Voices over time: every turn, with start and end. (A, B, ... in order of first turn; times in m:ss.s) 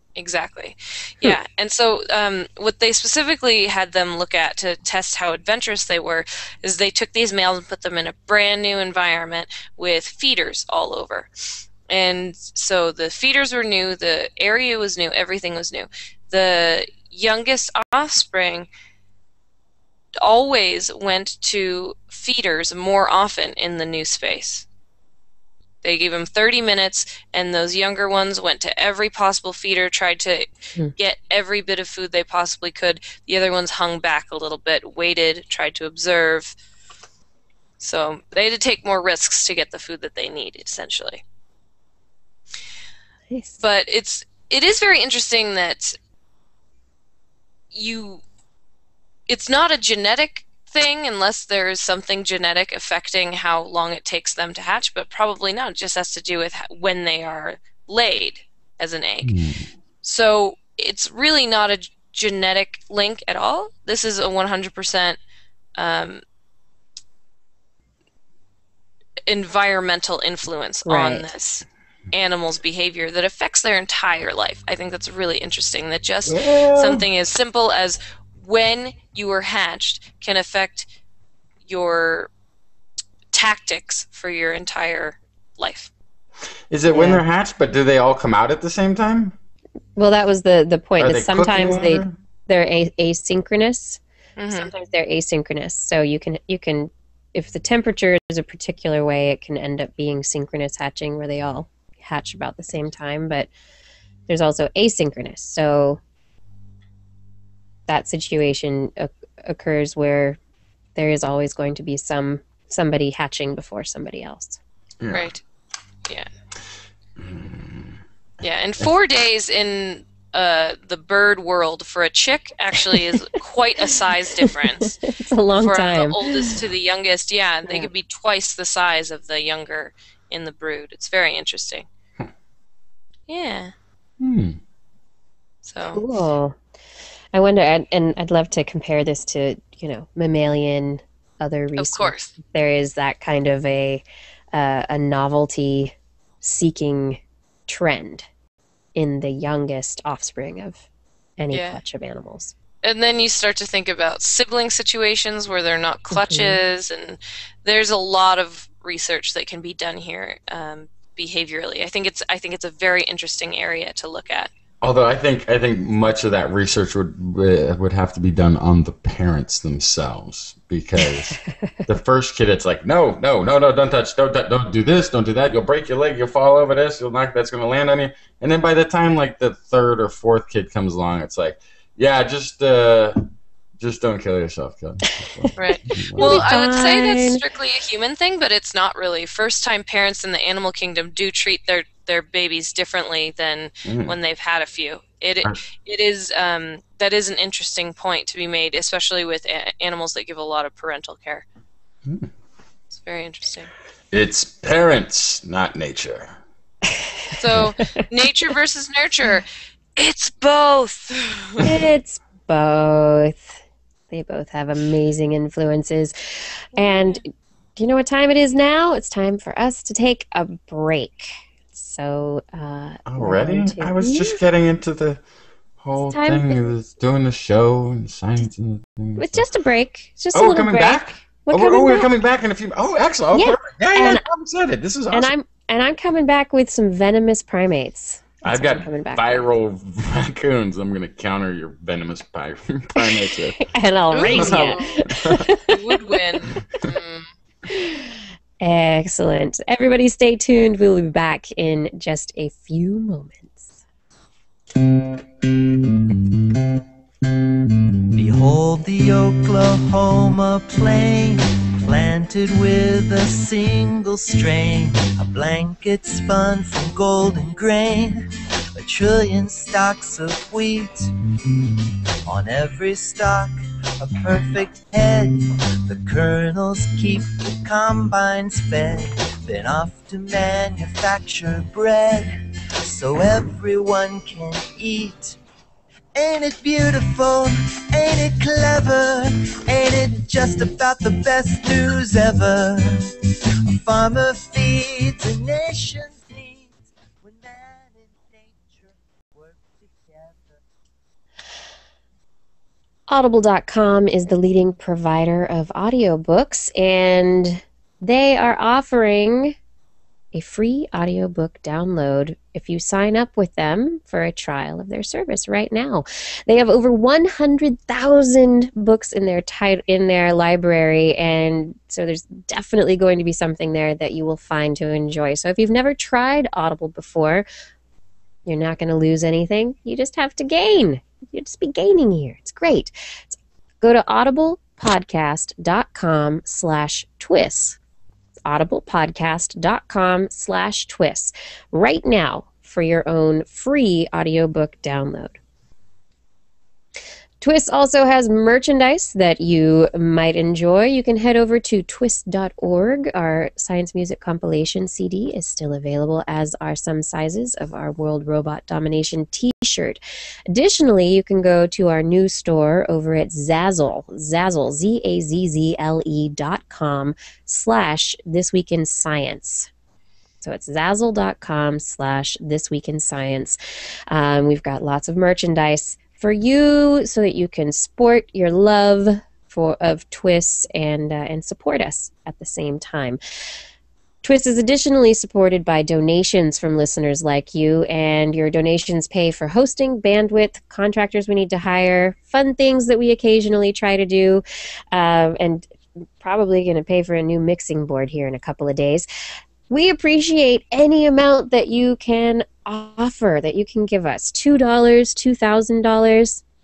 0:00.2-0:11.3 A
0:11.9-0:18.7 A
0:20.2-0:24.7 A
0:25.8-0:36.6 A
0:37.8-0:41.2 A
0:43.3-0:43.6 B
0:43.6-0:46.0 A
0:47.7-0:48.2 A
0:49.3-0:59.4 A
0:59.2-0:59.7 C
1:00.0-1:05.2 A
1:05.8-1:06.2 A
1:09.3-1:20.9 A
1:10.8-1:11.3 B
1:16.3-1:17.1 C
1:21.7-1:22.3 A
1:23.3-1:25.9 A
1:26.7-1:29.4 C
1:26.9-1:27.2 B
1:30.0-1:43.5 B
1:31.0-1:32.1 C
1:34.4-1:34.7 A
1:44.3-1:46.0 B
1:47.9-1:50.4 B
1:51.0-1:54.6 B
1:55.0-1:55.3 C
1:55.1-1:55.4 A
1:57.2-1:58.0 C
1:58.4-2:05.0 A
2:04.8-2:06.5 B
2:05.6-2:11.9 A
2:13.3-2:13.7 A
2:14.2-2:14.6 C
2:15.6-2:16.0 A
2:15.9-2:16.6 B
2:17.3-2:28.3 B
2:21.8-2:22.3 A
2:29.0-2:30.8 B
2:31.4-2:32.5 B
2:31.5-2:31.8 A
2:32.8-2:44.5 A
2:36.1-2:36.6 B
2:44.8-3:03.2 C
3:03.8-3:06.5 C
3:05.0-3:05.5 B
3:05.6-3:21.4 A
3:06.2-3:07.4 B
3:13.8-3:14.2 C
3:22.9-3:23.7 A
3:24.1-3:26.4 C
3:26.9-3:28.1 B
3:27.4-3:29.5 A
3:30.0-3:31.6 A
3:31.6-3:33.6 B
3:34.1-3:37.2 B
3:36.8-3:37.2 A
3:37.8-3:44.4 B
3:43.1-3:45.2 C
3:45.8-3:49.4 C
3:46.0-3:46.7 B
3:49.2-3:52.1 B
3:50.3-3:55.3 C
3:53.3-3:54.2 B
3:55.1-3:59.5 B
3:58.4-4:03.7 C
4:03.1-4:06.5 B
4:04.1-4:05.1 A
4:04.2-4:05.5 C
4:05.6-4:07.3 A
4:07.7-4:13.8 B
4:18.1-4:31.1 D
4:32.2-4:42.3 D
4:42.8-4:45.4 D
4:46.2-4:52.9 D
4:53.7-5:00.6 D
5:03.1-5:09.6 B
5:10.3-5:27.5 B
5:28.5-5:37.8 B
5:38.4-5:45.4 B
5:47.4-6:00.0 B
6:00.5-6:09.7 B
6:10.4-6:13.6 B
6:14.1-6:23.2 B
6:24.2-6:39.1 B
6:39.7-6:46.4 B